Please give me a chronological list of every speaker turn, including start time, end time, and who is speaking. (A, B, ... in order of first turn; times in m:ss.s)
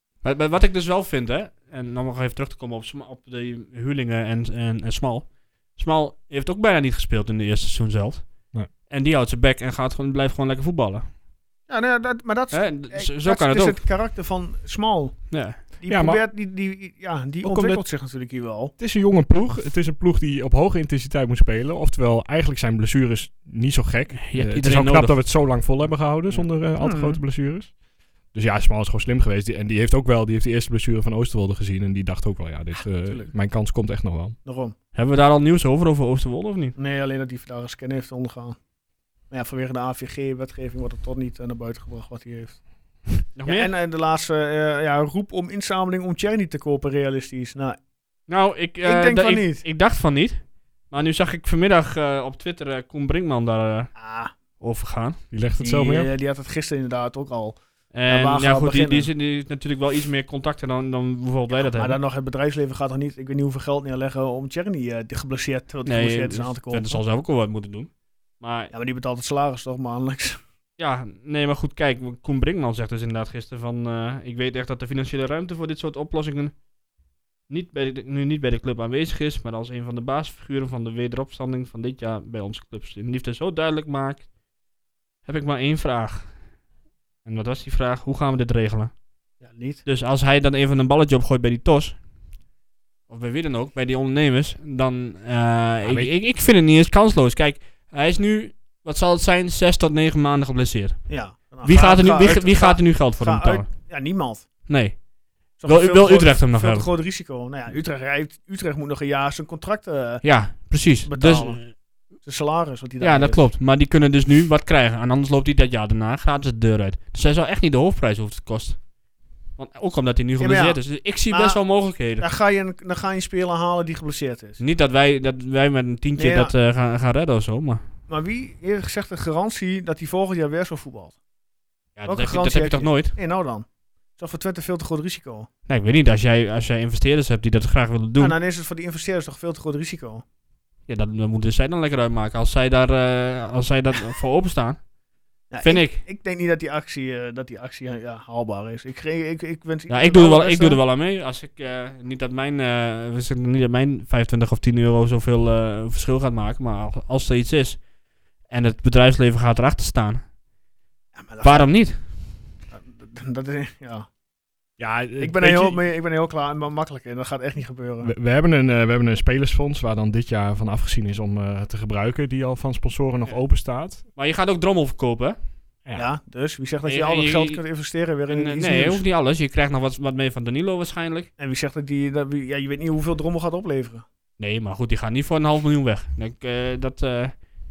0:00.2-0:11.1 A
0:11.7-0:18.7 B
0:12.5-0:13.8 A
0:15.3-0:15.6 A
0:15.9-0:16.2 C
0:17.4-0:17.9 C
0:18.8-0:34.4 C
0:24.2-0:25.4 A
0:26.8-0:27.2 B
0:33.0-0:33.3 B
0:34.4-0:34.7 B
0:34.9-0:36.7 A
0:36.8-0:38.6 B
0:39.3-0:42.6 B
0:43.2-0:47.8 B
0:43.3-0:43.7 A
0:48.3-0:53.9 A
0:48.8-0:49.6 B
0:54.0-0:54.3 B
0:54.6-0:55.2 A
0:55.3-0:56.1 C
0:55.6-0:59.1 B
0:57.9-1:02.0 A
1:01.5-1:07.0 B
1:05.8-1:08.7 A
1:08.7-1:10.4 B
1:10.8-1:16.6 A
1:17.5-1:24.3 A
1:25.2-1:26.3 A
1:27.2-1:28.9 A
1:29.4-1:29.8 B
1:29.8-1:32.0 A
1:33.1-1:43.7 A
1:35.8-1:36.1 C
1:41.1-1:44.5 B
1:44.6-1:45.1 A
1:45.6-1:46.9 A
1:45.6-1:50.2 B
1:50.2-1:51.7 A
1:51.0-1:53.4 B
1:53.0-1:58.8 A
1:59.6-2:02.2 A
2:00.4-2:04.6 B
2:04.6-2:07.8 A
2:06.2-2:06.5 B
2:08.1-2:11.2 B
2:12.0-2:13.2 A
2:12.0-2:15.5 B
2:15.7-2:18.4 A
2:18.2-2:20.2 B
2:20.9-2:24.8 A
2:25.5-2:30.8 B
2:25.6-2:26.0 A
2:29.9-2:37.9 A
2:38.4-2:40.3 A
2:41.1-2:42.1 B
2:41.4-2:42.1 A
2:42.7-2:44.1 B
2:44.8-2:45.8 C
2:45.2-2:48.1 B
2:48.0-2:54.0 C
2:53.2-2:55.4 A
2:55.9-2:59.0 B
2:56.8-2:57.6 A
2:58.3-3:01.3 A
3:01.4-3:04.0 B
3:04.4-3:07.4 A